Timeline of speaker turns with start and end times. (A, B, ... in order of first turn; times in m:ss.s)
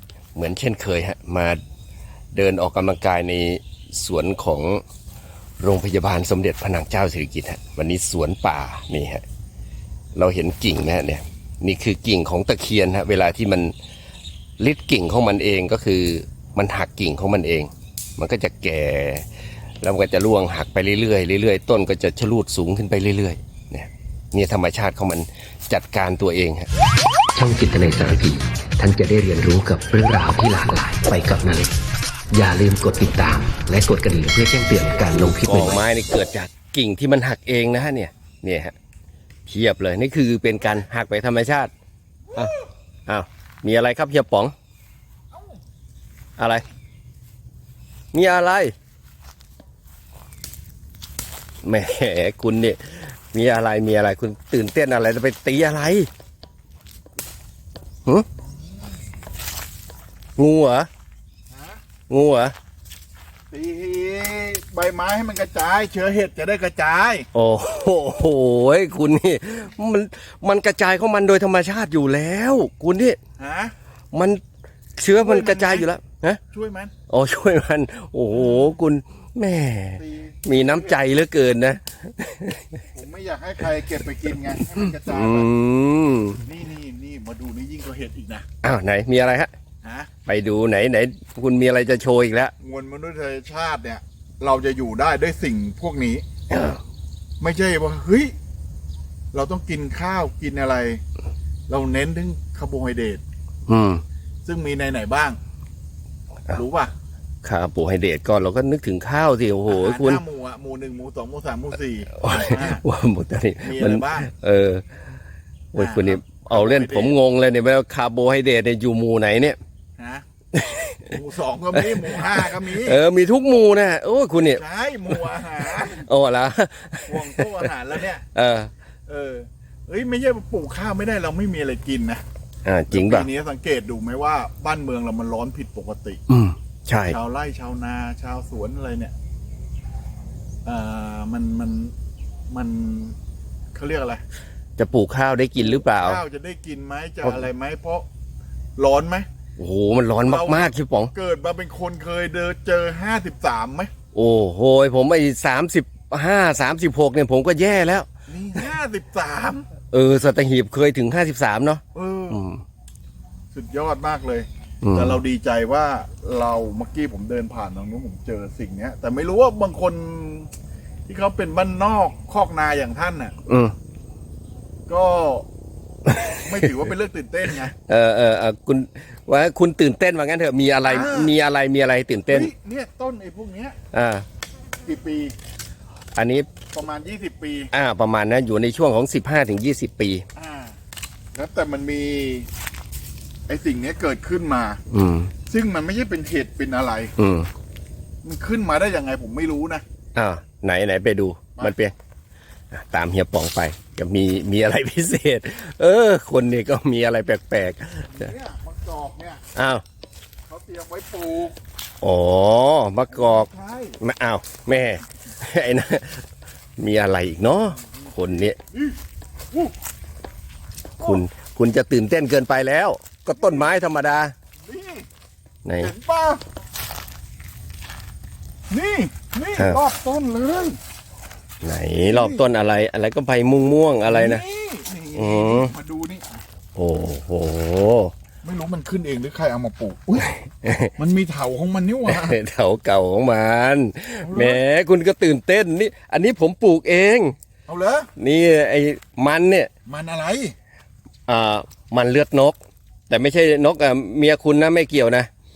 0:00.4-0:01.6 A
0:02.3-0:04.8 A
0:05.6-0:09.2 A
0:10.2-0:13.7 A
0:14.6-0:19.2 A
0:19.8-0:26.7 A
0:27.4-0:31.7 B
0:32.3-0:35.8 B
0:35.3-0:38.7 A
0:39.5-0:41.7 A
0:42.3-0:42.7 C
0:43.1-0:44.5 A
0:46.4-0:46.6 A
0:48.1-0:48.7 A
0:51.6-0:56.1 A
1:00.4-1:00.9 A
1:01.5-1:01.8 C
1:02.1-1:02.5 A
1:03.5-1:07.3 C
1:07.3-1:13.2 A
1:13.4-1:13.7 C
1:14.1-1:14.4 A
1:15.0-1:16.4 A
1:15.2-1:15.9 C
1:16.5-1:16.9 C
1:17.1-1:22.7 A
1:18.3-1:18.8 C
1:20.0-1:21.0 C
1:22.9-1:25.5 C
1:24.8-1:26.5 A
1:26.4-1:28.5 C
1:28.6-1:29.5 A
1:29.8-1:30.1 C
1:30.2-1:32.5 A
1:32.6-1:36.2 C
1:36.5-1:36.8 A
1:37.4-1:38.3 C
1:39.3-1:41.0 C
1:41.7-1:43.2 C
1:43.7-1:44.0 A
1:44.4-1:45.4 C
1:46.5-1:46.9 C
1:47.4-1:50.2 A
1:49.7-1:52.8 C
1:52.2-1:54.8 A
1:53.6-1:54.3 C
1:55.7-1:59.6 A
1:55.8-1:57.2 C
2:00.0-2:00.2 C
2:00.6-2:01.1 A
2:01.1-2:03.0 C
2:01.8-2:07.7 A
2:04.4-2:06.1 C
2:07.1-2:08.2 C
2:08.3-2:08.7 A
2:09.1-2:12.2 C
2:12.6-2:13.3 A
2:12.9-2:16.2 C
2:16.3-2:17.2 A
2:17.1-2:19.1 C
2:20.6-2:21.9 C
2:22.5-2:23.2 C
2:23.7-2:24.2 C
2:24.8-2:26.2 A
2:25.6-2:28.1 C
2:27.2-2:27.5 A
2:28.8-2:29.3 C
2:29.6-2:31.1 A
2:30.3-2:33.9 C
2:34.1-2:38.1 A
2:38.3-2:39.7 C
2:39.9-2:42.6 A
2:41.9-2:42.4 C
2:43.5-2:50.5 C
2:44.8-2:45.2 A
2:51.1-2:53.3 C
2:53.5-2:53.7 A
2:54.9-2:55.5 C
2:56.1-2:56.4 A
2:56.4-2:57.8 C
2:57.9-3:02.5 A
3:00.8-3:01.3 C
3:02.3-3:03.8 C
3:03.9-3:04.2 A
3:04.8-3:05.3 C
3:06.2-3:06.5 A
3:06.7-3:07.7 C
3:07.7-3:10.2 A
3:10.4-3:10.8 C
3:11.4-3:12.5 C
3:13.5-3:14.8 C
3:14.9-3:15.3 A
3:15.5-3:17.1 C
3:17.2-3:17.5 A
3:18.2-3:19.8 C
3:20.2-3:21.9 A
3:22.7-3:28.3 A
3:28.1-3:29.4 C
3:29.6-3:29.8 A
3:30.5-3:31.6 C
3:32.0-3:33.5 A
3:33.1-3:34.0 C
3:34.0-3:36.2 A
3:36.8-3:38.6 A
3:38.7-3:39.0 C
3:41.0-3:44.3 A
3:43.4-3:43.8 C
3:44.6-3:45.1 C
3:45.6-3:45.9 A
3:45.8-3:46.4 C
3:48.7-3:50.8 C
3:51.6-3:54.4 A
3:52.0-3:52.5 C
3:54.0-3:56.3 C
3:55.2-3:55.7 A
3:56.8-3:58.1 A
3:58.4-4:00.3 C
4:00.4-4:00.9 A
4:01.0-4:02.4 C
4:02.1-4:07.4 A
4:04.2-4:04.6 C
4:07.7-4:08.1 C
4:08.2-4:09.7 A
4:09.9-4:10.6 C
4:11.3-4:12.6 A
4:13.1-4:15.3 A